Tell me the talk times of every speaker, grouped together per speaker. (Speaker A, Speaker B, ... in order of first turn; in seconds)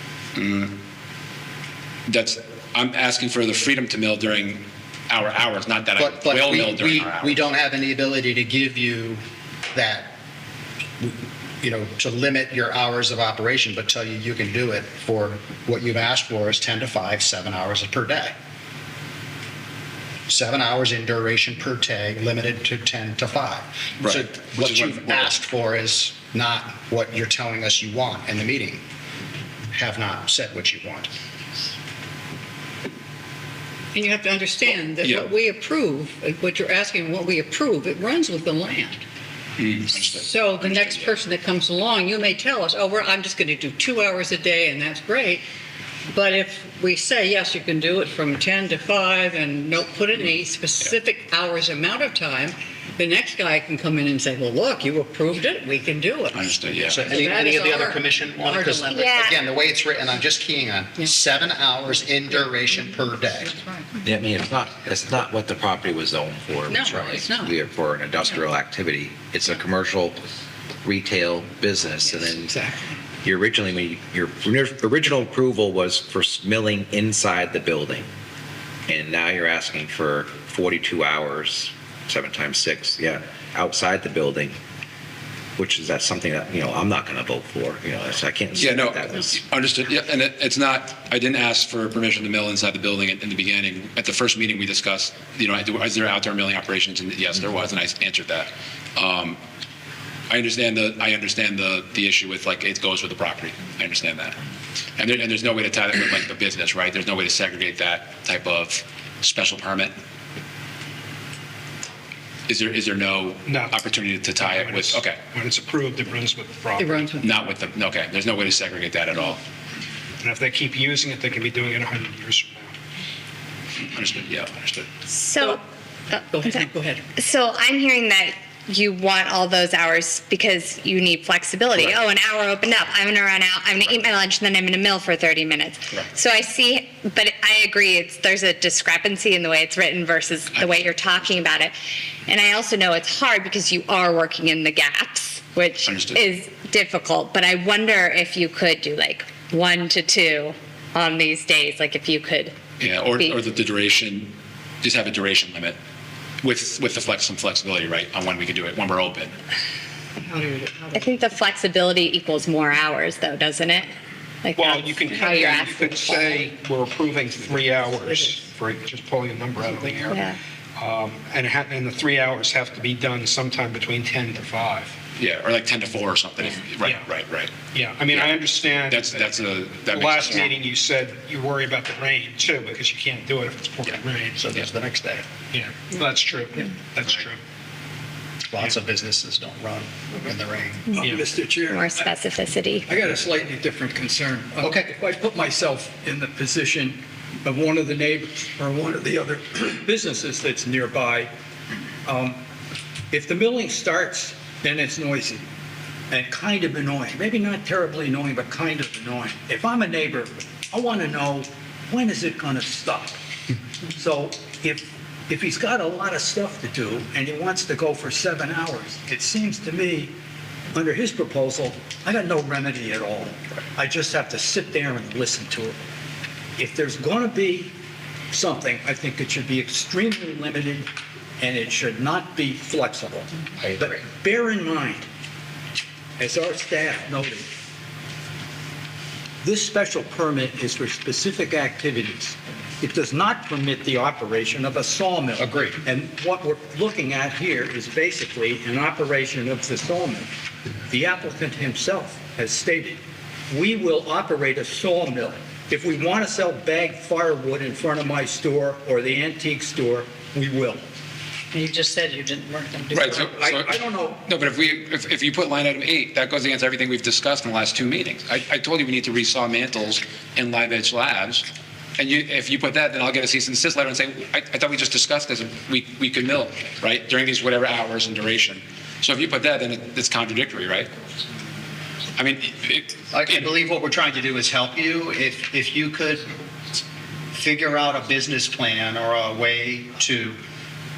Speaker A: 0.3-0.7, 2.1-7.4, 24.0-25.3, 39.6-41.0, 56.3-57.1, 88.6-99.4, 100.3-104.3, 105.0-109.9, 112.5-115.2, 117.2-119.4, 123.8-124.8, 145.8-146.2, 152.8-155.8, 156.4-159.3, 175.2-177.5, 178.1-178.4, 178.9-180.5, 262.9-263.7, 264.2-271.4, 272.0-280.9, 282.2-283.5
Speaker B: 6.0-9.2, 9.7-10.2, 11.0-18.3, 20.3-28.8, 29.7-31.1, 56.9-63.5, 184.3-185.2, 188.5-191.0, 194.6-194.9, 245.4-245.8, 283.1-286.3, 287.3-290.4
Speaker C: 33.9-39.0, 39.9-45.4, 46.1-59.2, 63.5-63.9, 66.7-67.5, 72.0-72.9, 116.8-117.5, 126.1-127.0, 160.2-161.2, 261.5-263.3
Speaker D: 58.9-59.4, 125.1-125.6, 127.2-141.7, 142.3-152.5, 160.9-163.9, 164.4-166.4, 170.1-170.4, 190.9-192.8
Speaker E: 64.0-70.2, 70.8-72.5, 73.2-78.1, 78.9-84.6, 85.6-89.4
Speaker F: 113.5-113.8, 114.3-117.1, 120.2-122.7, 164.5-170.2, 170.8-174.9, 177.7-179.3, 179.8-184.4, 185.5-187.4
Speaker G: 191.0-192.1, 192.8-201.3, 202.1-202.4, 203.1-205.4, 206.1-213.2, 213.9-220.1, 220.7-225.8, 226.6-227.7, 228.3-235.0, 236.2-237.5, 239.4-250.3, 250.9-260.8, 262.9-264.2